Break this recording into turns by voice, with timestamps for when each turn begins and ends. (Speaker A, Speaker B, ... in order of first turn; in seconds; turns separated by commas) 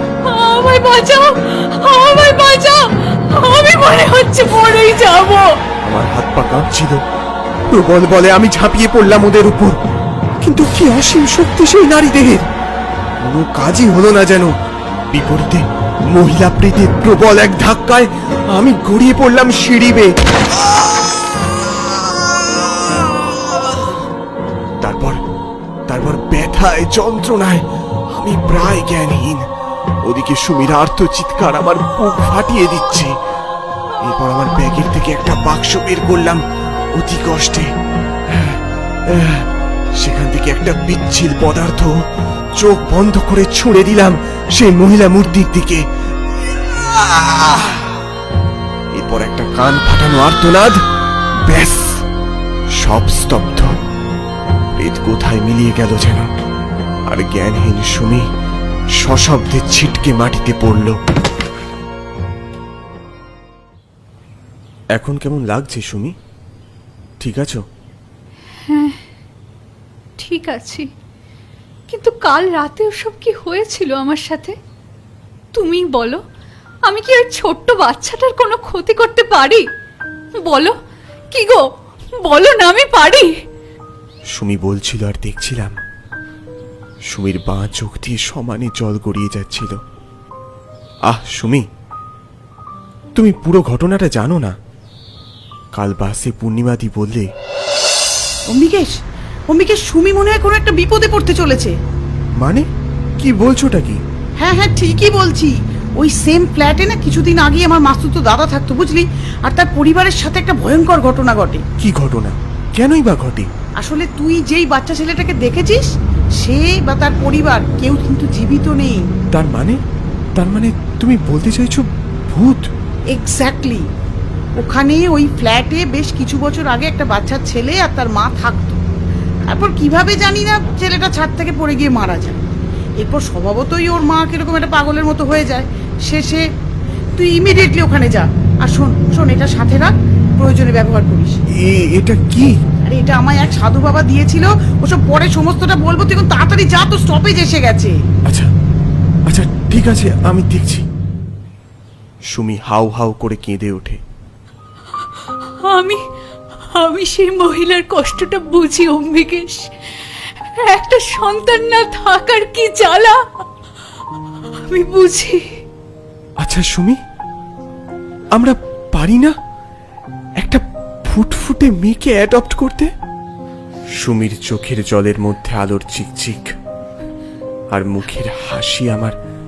Speaker A: 0.2-5.5, Speaker B: 5.8-7.0, Speaker B: 7.7-9.8, Speaker B: 10.4-12.5, Speaker B: 13.2-14.5, Speaker B: 15.1-20.1, Speaker B: 24.8-25.2, Speaker B: 25.9-29.4, Speaker B: 30.0-33.1, Speaker B: 34.0-36.4, Speaker B: 36.9-37.7, Speaker B: 38.3-41.9, Speaker B: 42.6-45.8, Speaker B: 46.5-47.9, Speaker B: 48.9-50.8, Speaker B: 51.5-52.0, Speaker B: 52.8-53.7, Speaker B: 54.7-56.3, Speaker B: 57.1-58.2, Speaker B: 59.0-61.0, Speaker B: 64.9-66.1, Speaker B: 67.2-67.6, Speaker A: 68.6-69.0, Speaker A: 70.2-70.8, Speaker A: 71.9-74.5, Speaker A: 75.5-76.2, Speaker A: 76.9-79.6, Speaker A: 80.5-80.7, Speaker A: 81.3-81.6, Speaker A: 82.2-83.3, Speaker B: 84.3-85.7, Speaker B: 87.1-89.7, Speaker B: 91.1-91.6, Speaker B: 93.2-94.5, Speaker B: 95.7-97.3, Speaker C: 98.5-98.9, Speaker C: 99.5-101.7, Speaker B: 102.4-102.7, Speaker B: 103.2-104.0, Speaker C: 104.4-111.6, Speaker B: 111.8-113.5, Speaker C: 113.8-115.9, Speaker C: 116.4-119.0, Speaker B: 119.3-119.8, Speaker B: 120.3-122.7, Speaker C: 123.1-123.9, Speaker C: 124.6-128.8, Speaker C: 129.5-136.4, Speaker C: 137.2-141.4, Speaker B: 141.5-142.6, Speaker C: 142.8-147.9, Speaker B: 149.3-150.8, Speaker B: 152.3-154.0, Speaker A: 155.4-156.0, Speaker A: 156.7-163.2, Speaker A: 164.5-165.4, Speaker B: 166.4-167.0, Speaker B: 168.3-169.3, Speaker B: 170.4-172.9, Speaker B: 174.0-176.5, Speaker B: 177.7-179.2